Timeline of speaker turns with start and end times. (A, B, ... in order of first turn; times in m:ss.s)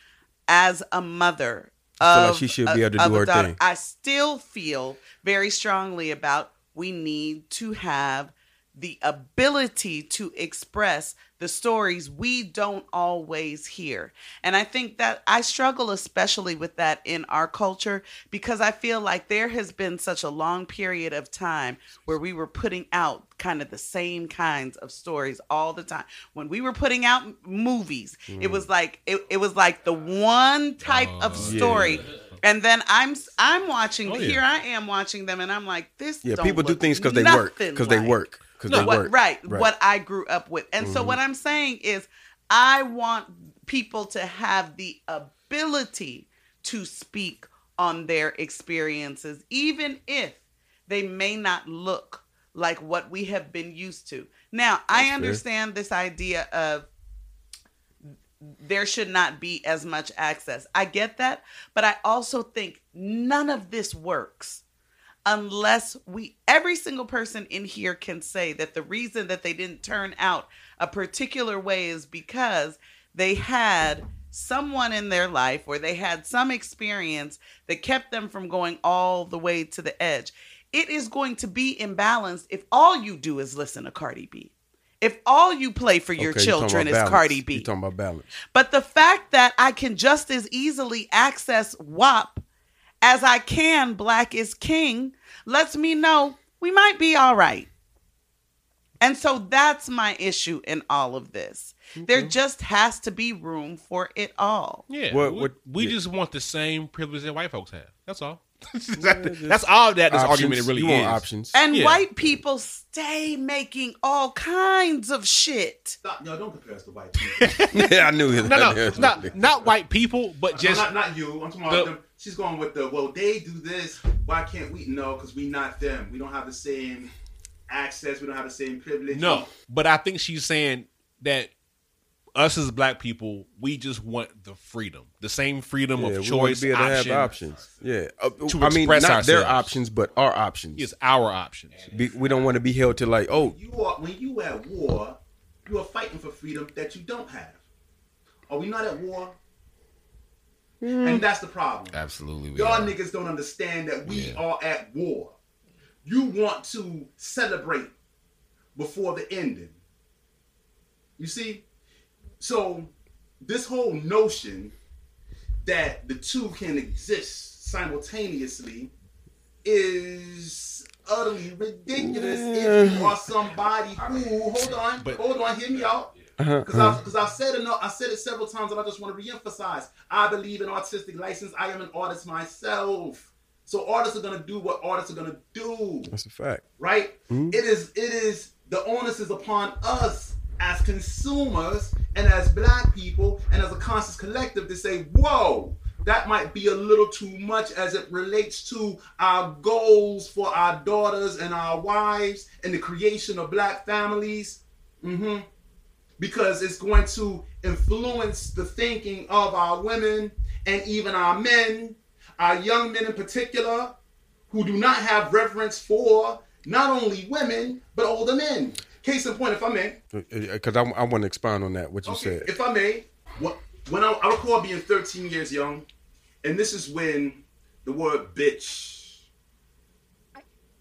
0:00.5-0:56.9 A
0:02.0-0:03.6 B
0:28.3-0:28.7 B
0:30.8-0:32.4 C
0:31.4-0:32.0 B
0:34.0-0:34.4 C
0:36.2-0:39.7 B
0:38.7-0:39.0 C
0:40.8-0:41.2 B
0:54.9-0:55.4 B
0:58.4-1:04.6 A
1:05.2-1:27.7 A
1:26.2-1:28.4 B
1:28.5-1:32.4 A
1:33.0-1:37.7 A
1:39.0-1:44.8 A
1:42.0-1:42.3 B
1:44.9-1:52.0 C
1:45.1-1:45.9 B
1:49.0-1:51.6 B
1:51.5-1:56.0 A
1:56.0-1:57.6 D
1:57.3-2:00.9 C
1:57.7-1:59.7 B
1:58.4-1:59.4 D
2:00.5-2:07.1 D
2:07.7-2:09.5 D
2:09.1-2:11.5 C
2:12.3-2:17.4 C
2:16.0-2:20.9 B
2:17.5-2:17.8 E
2:18.5-2:19.7 C
2:20.8-2:21.9 C
2:21.7-2:22.6 E
2:21.9-2:23.6 B
2:23.3-2:27.6 D
2:28.5-2:29.4 D
2:30.8-2:31.2 B
2:31.0-2:32.0 D
2:31.9-2:33.0 E
2:32.6-2:35.4 D
2:34.0-2:34.4 E
2:36.0-2:37.9 D
2:38.7-2:39.8 D
2:41.2-2:41.6 D
2:42.4-2:44.7 D
2:45.6-2:48.9 D
2:49.6-2:56.1 D
2:51.9-2:53.2 B
2:56.4-2:57.0 B
2:56.6-3:06.1 D
3:06.1-3:06.6 B
3:06.8-3:25.4 D
3:07.3-3:07.6 B
3:26.2-3:34.0 D
3:34.5-3:40.0 D
3:40.1-3:42.5 B
3:42.0-3:45.9 D
3:46.4-3:49.2 D